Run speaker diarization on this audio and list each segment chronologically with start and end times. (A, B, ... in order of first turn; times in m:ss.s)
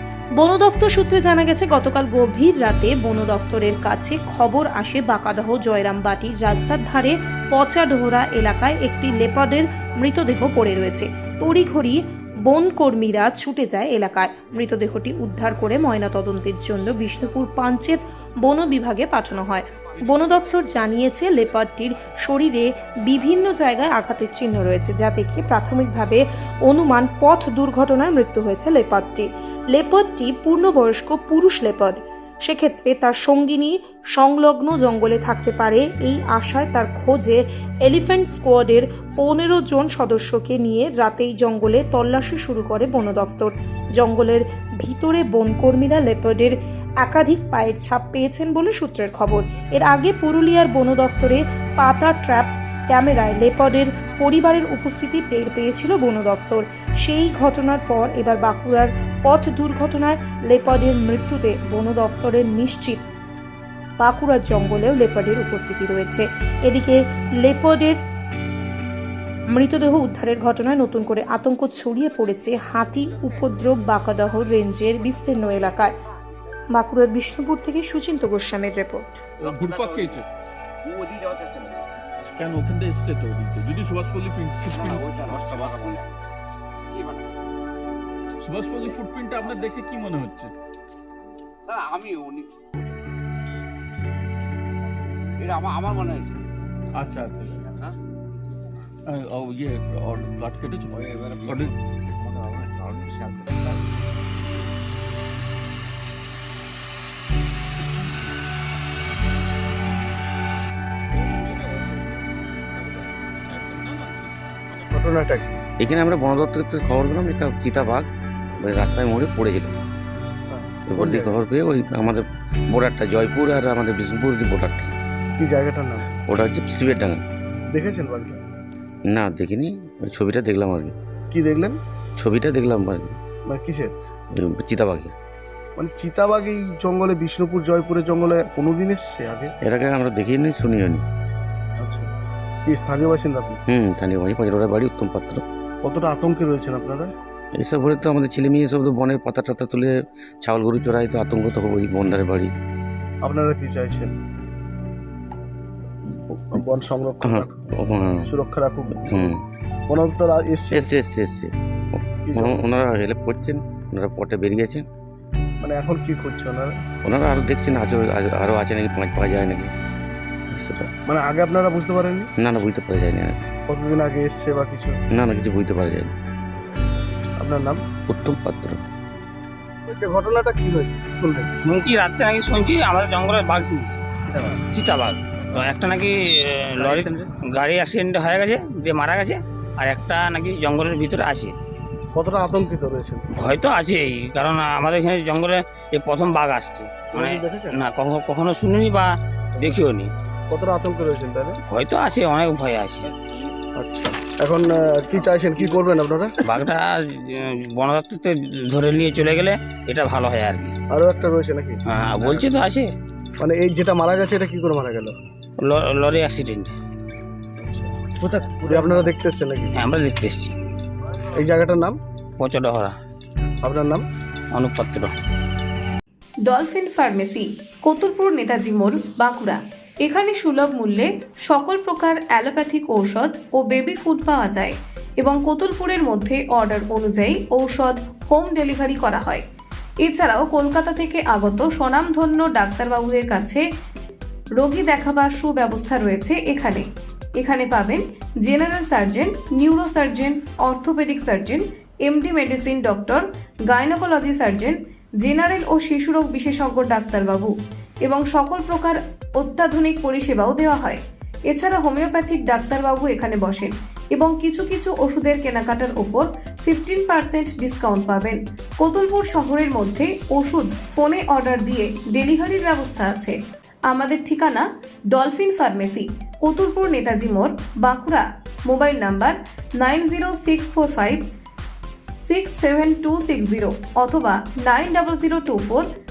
0:00.4-1:03.1 A
0:20.3-0:20.8 B
1:04.0-1:08.0 A
1:09.5-1:15.9 A
1:16.7-1:19.3 A
1:19.4-1:20.2 C
1:19.6-1:20.2 B
1:20.9-1:21.8 B
1:22.2-1:25.9 C
1:24.7-1:26.0 B
1:26.9-1:27.2 B
1:28.4-1:30.5 C
1:31.7-1:32.5 B
1:35.4-1:36.3 B
1:37.0-1:37.7 C
1:39.1-1:41.7 C
1:42.3-1:42.8 B
1:51.1-1:54.8 C
1:54.9-1:55.6 D
1:55.8-1:58.1 E
1:58.6-1:59.8 E
2:00.5-2:01.4 D
2:00.9-2:04.9 E
2:05.4-2:06.1 D
2:06.2-2:07.2 E
2:07.7-2:08.4 D
2:09.1-2:10.9 E
2:11.3-2:11.8 D
2:12.2-2:13.2 E
2:13.5-2:13.9 D
2:14.3-2:15.1 E
2:15.8-2:19.5 D
2:19.6-2:21.0 E
2:21.8-2:22.1 D
2:22.6-2:23.6 D
2:23.7-2:25.4 E
2:25.8-2:27.1 D
2:27.6-2:32.5 E
2:33.2-2:34.1 D
2:36.3-2:37.5 D
2:37.2-2:38.3 E
2:38.2-2:39.3 D
2:39.1-2:39.3 E
2:39.9-2:40.9 D
2:40.7-2:44.8 E
2:42.3-2:42.6 D
2:45.6-2:46.7 D
2:47.0-2:49.7 E
2:50.5-2:50.9 E
2:51.1-2:52.3 D
2:52.4-2:53.4 E
2:53.7-2:55.0 D
2:55.1-2:56.1 E
2:57.4-2:57.8 D
2:58.1-2:58.8 E
2:59.9-3:01.5 D
3:01.6-3:04.0 F
3:04.4-3:04.6 D
3:04.7-3:11.5 F
3:06.8-3:07.1 D
3:12.1-3:13.2 D
3:13.4-3:20.1 F
3:17.1-3:17.8 D
3:20.5-3:21.6 D
3:21.7-3:23.1 F
3:23.8-3:26.3 D
3:26.4-3:30.7 F
3:30.9-3:32.4 D
3:31.9-3:32.9 F
3:33.4-3:35.2 D
3:35.6-3:36.7 F
3:37.6-3:39.7 D
3:38.2-3:39.1 F
3:39.8-3:40.5 F
3:41.4-3:42.0 D
3:42.4-3:42.9 F
3:43.6-3:44.0 D
3:44.5-3:45.1 F
3:46.4-3:59.4 G
4:00.0-4:03.6 G
4:04.6-4:41.2 G
4:42.2-4:45.9 G